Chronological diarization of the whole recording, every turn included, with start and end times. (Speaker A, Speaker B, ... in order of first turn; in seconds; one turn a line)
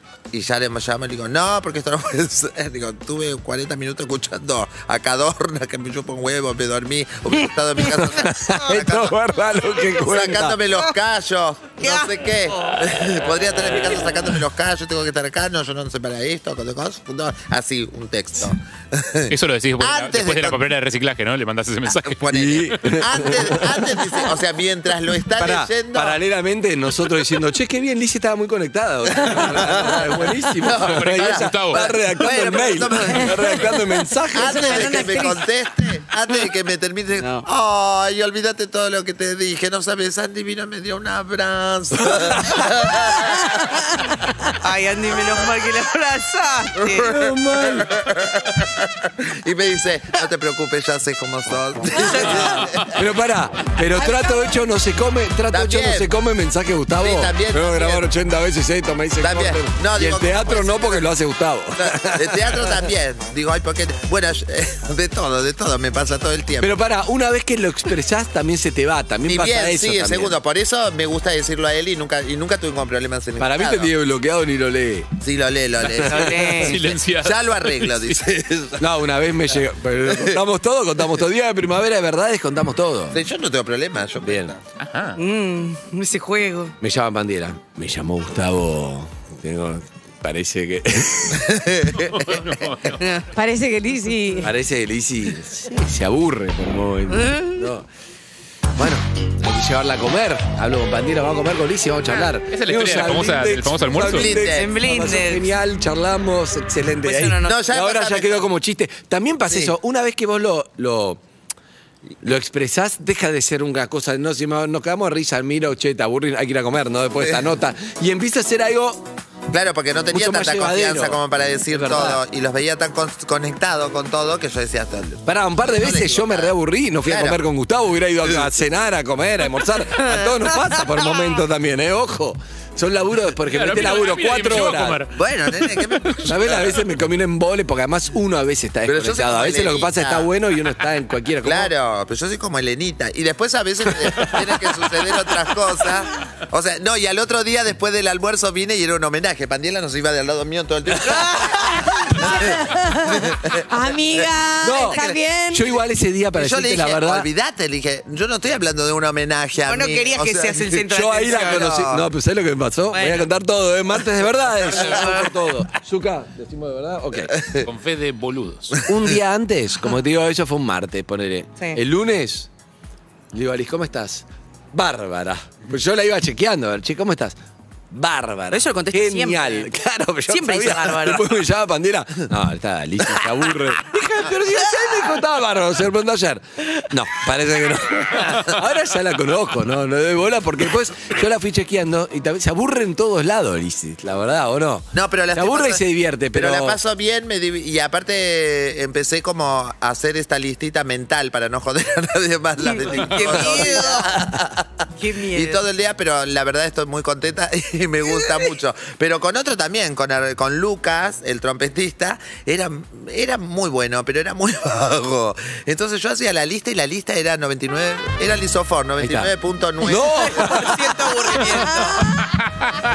Speaker A: 0.3-9.2
Speaker B: 7.8-10.6
Speaker A: 10.0-20.6
Speaker C: 11.8-12.9
Speaker D: 19.3-22.2
Speaker A: 22.1-26.2
Speaker B: 22.3-24.2
Speaker B: 25.4-35.2
Speaker A: 29.1-33.7
Speaker D: 30.6-31.9
Speaker A: 34.3-43.9
Speaker E: 34.4-35.4
Speaker C: 37.2-37.5
Speaker B: 42.0-43.1
Speaker C: 44.5-47.2
Speaker A: 46.8-53.0
Speaker B: 47.1-47.9
Speaker B: 52.2-62.9
Speaker A: 55.5-56.1
Speaker A: 57.0-58.0
Speaker A: 59.2-61.1
Speaker A: 61.8-66.7
Speaker B: 66.6-70.4
Speaker A: 69.3-73.9
Speaker B: 73.4-75.1
Speaker A: 75.2-78.8
Speaker B: 75.8-76.6
Speaker C: 76.0-76.8
Speaker D: 76.6-78.2
Speaker B: 78.8-83.2
Speaker A: 80.0-80.4
Speaker A: 83.1-84.6
Speaker B: 84.2-84.5
Speaker D: 84.8-85.2
Speaker C: 85.2-86.7
Speaker B: 86.8-91.8
Speaker A: 91.4-92.5
Speaker D: 92.0-93.0
Speaker C: 93.0-93.3
Speaker E: 93.3-94.5
Speaker B: 94.4-97.9
Speaker C: 97.1-97.7
Speaker B: 98.8-111.2
Speaker D: 102.5-104.3
Speaker A: 104.0-104.7
Speaker C: 104.4-105.5
Speaker C: 107.0-107.6
Speaker A: 107.5-108.4
Speaker B: 112.2-119.1
Speaker A: 119.5-126.5
Speaker B: 120.1-122.2
Speaker B: 125.2-135.0
Speaker A: 127.1-127.4
Speaker C: 130.1-130.6
Speaker D: 133.5-135.2
Speaker A: 135.2-136.8
Speaker B: 136.2-141.7
Speaker A: 138.8-140.3
Speaker A: 141.4-153.6
Speaker B: 144.1-144.5
Speaker C: 151.1-151.8
Speaker E: 152.2-155.8
Speaker B: 154.6-157.3
Speaker A: 154.8-155.2
Speaker A: 156.4-160.7
Speaker C: 159.7-161.7
Speaker B: 160.6-167.3
Speaker A: 161.3-162.1
Speaker C: 162.9-163.3
Speaker D: 164.7-165.0
Speaker A: 167.3-167.7
Speaker D: 167.6-168.8
Speaker B: 168.9-172.5
Speaker B: 173.3-177.4
Speaker B: 177.9-196.8
Speaker C: 178.5-179.7
Speaker C: 180.3-181.3
Speaker A: 194.9-220.7
Speaker C: 202.6-204.2
Speaker B: 203.2-203.8
Speaker C: 205.0-205.6
Speaker B: 219.0-221.9
Speaker C: 220.3-222.2